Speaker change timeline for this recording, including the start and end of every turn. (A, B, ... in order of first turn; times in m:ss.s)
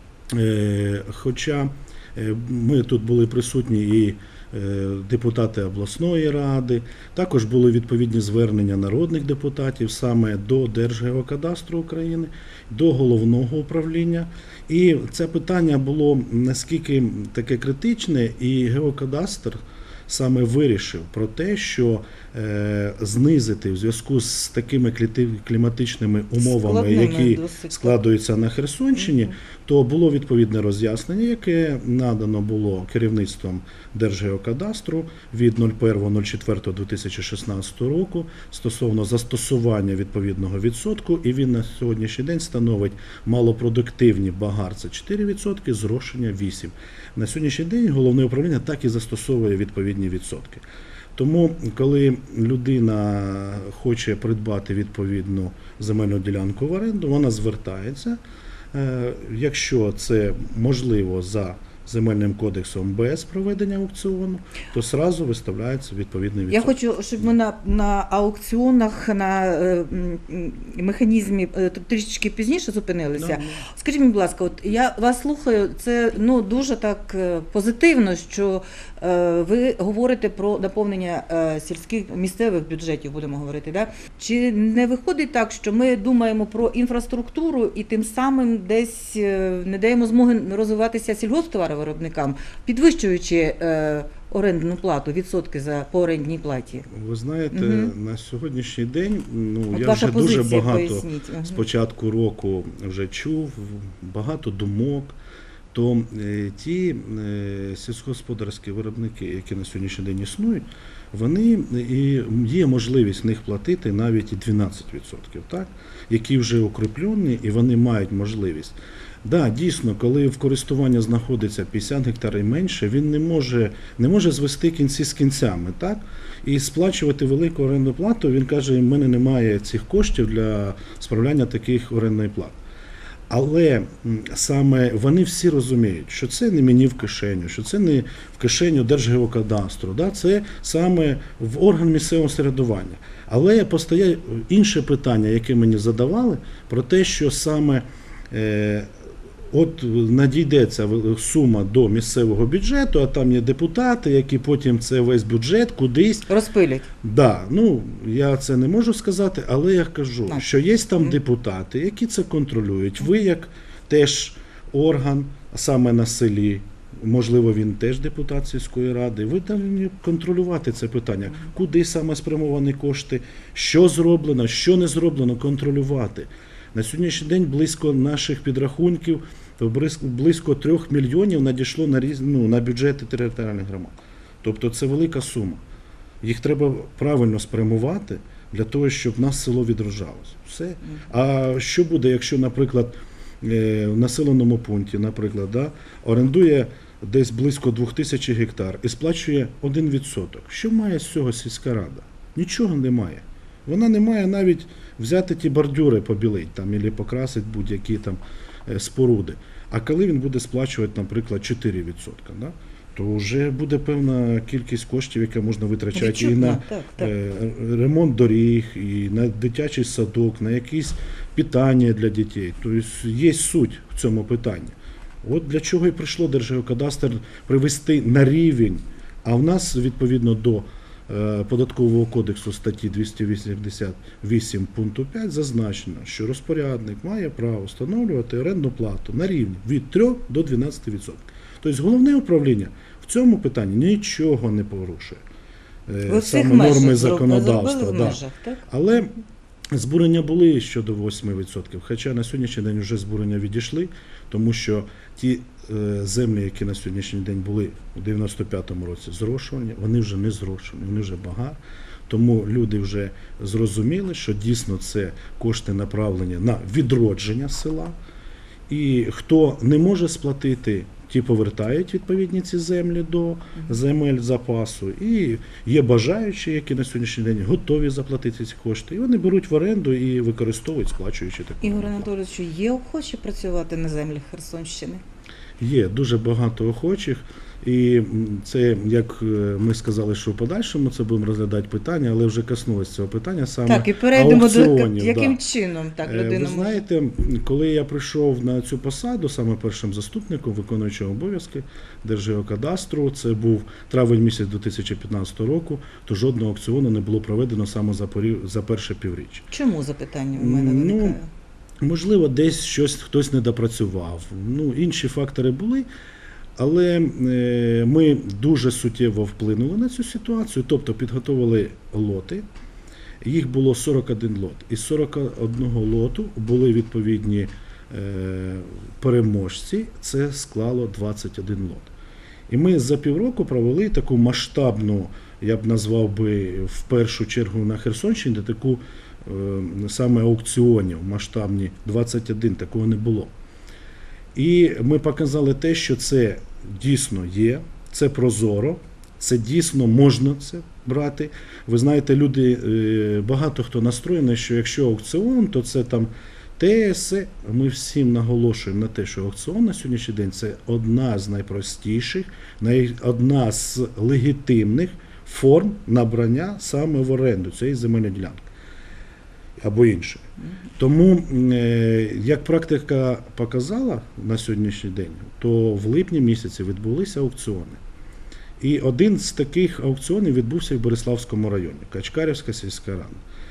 0:00.3-0:50.6 A
0:26.4-0:28.0 B
0:28.9-0:29.3 B
0:51.2-0:58.2 A
0:58.7-1:07.3 A
1:06.5-1:36.9 B
1:13.2-1:13.7 A
1:36.9-1:45.2 A
1:37.5-1:37.9 B
1:39.7-1:41.6 B
1:45.7-2:12.6 A
2:13.3-2:28.9 A
2:29.5-2:36.3 A
2:36.3-2:36.9 B
2:37.0-3:05.6 A
3:06.2-4:05.2 A
3:36.0-3:37.1 B
4:05.9-4:09.1 A
4:06.1-4:08.7 B
4:09.7-4:28.0 A
4:28.7-4:42.1 A
4:41.6-4:45.0 B
4:45.6-4:55.4 A
4:53.6-4:56.8 B
4:56.0-5:09.5 A
5:09.5-5:11.3 B
5:10.4-5:11.2 A
5:11.8-5:15.9 A
5:16.6-5:22.5 A
5:23.2-5:31.9 A
5:32.5-5:43.3 A
5:44.4-6:08.5 A
6:09.6-6:10.3 A
6:10.8-6:17.8 A
6:18.6-6:23.2 A